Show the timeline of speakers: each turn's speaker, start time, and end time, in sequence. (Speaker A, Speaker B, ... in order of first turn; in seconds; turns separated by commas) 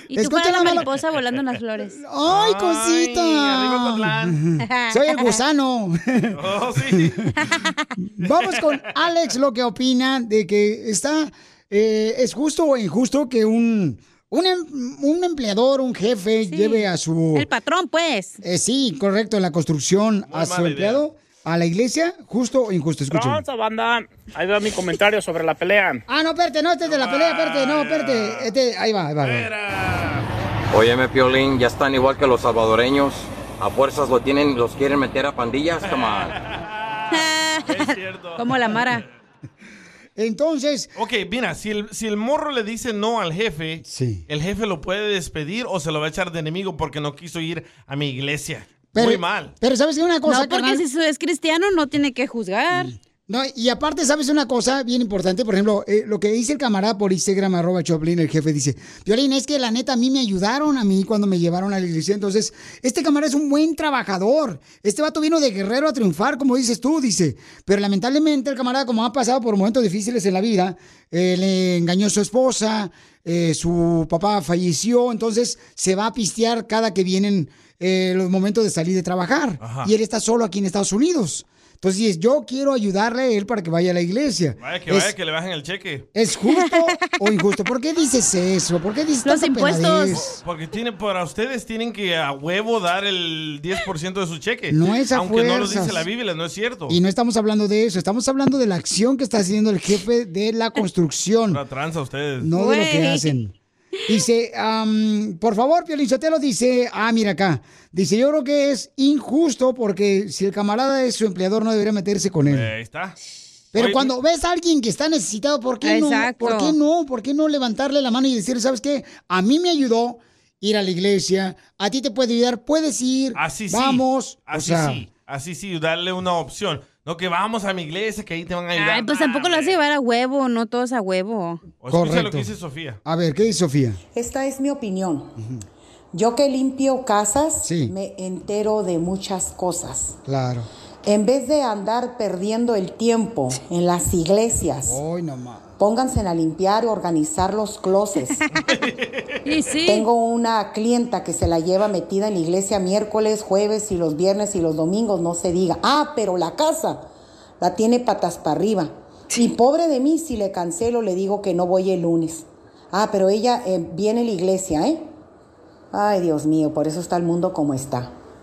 Speaker A: 0.1-2.0, Speaker B: 0.1-0.9, Speaker B: 1.9-6.4, Speaker C: 2.3-4.4, Speaker A: 4.7-5.4, Speaker C: 6.3-7.2, Speaker B: 7.0-7.2, Speaker A: 7.4-7.7, Speaker B: 8.0-17.5, Speaker A: 16.5-18.4, Speaker B: 18.4-23.4, Speaker C: 20.3-21.1, Speaker D: 23.1-26.0, Speaker B: 26.1-29.5, Speaker C: 26.9-28.5, Speaker C: 29.2-30.3, Speaker E: 30.7-36.3, Speaker C: 35.9-38.9, Speaker A: 37.1-39.0, Speaker B: 40.2-40.9, Speaker C: 41.0-49.5, Speaker B: 43.8-44.2, Speaker B: 48.9-50.8, Speaker A: 50.3-52.9, Speaker B: 52.7-85.1, Speaker C: 79.6-79.9, Speaker C: 84.6-86.1, Speaker B: 86.1-90.4, Speaker A: 86.5-86.8, Speaker A: 89.2-90.2, Speaker C: 90.1-97.0, Speaker B: 94.7-96.0, Speaker B: 96.9-101.6, Speaker C: 101.5-102.5, Speaker B: 102.4-103.5, Speaker A: 102.6-103.3, Speaker B: 104.1-112.7, Speaker C: 112.5-113.2, Speaker B: 113.7-125.0, Speaker C: 113.8-114.1, Speaker A: 115.8-116.8, Speaker C: 123.4-129.8, Speaker A: 128.8-131.6, Speaker C: 131.8-133.0, Speaker B: 131.9-132.5, Speaker B: 133.1-134.0, Speaker F: 134.1-135.3, Speaker F: 136.1-140.2, Speaker B: 137.6-137.9, Speaker B: 140.3-140.7, Speaker F: 141.1-145.0, Speaker B: 144.9-145.7, Speaker F: 145.8-148.4, Speaker C: 148.7-149.3, Speaker A: 149.4-150.1, Speaker F: 149.9-157.1, Speaker F: 157.6-165.1, Speaker F: 165.9-168.1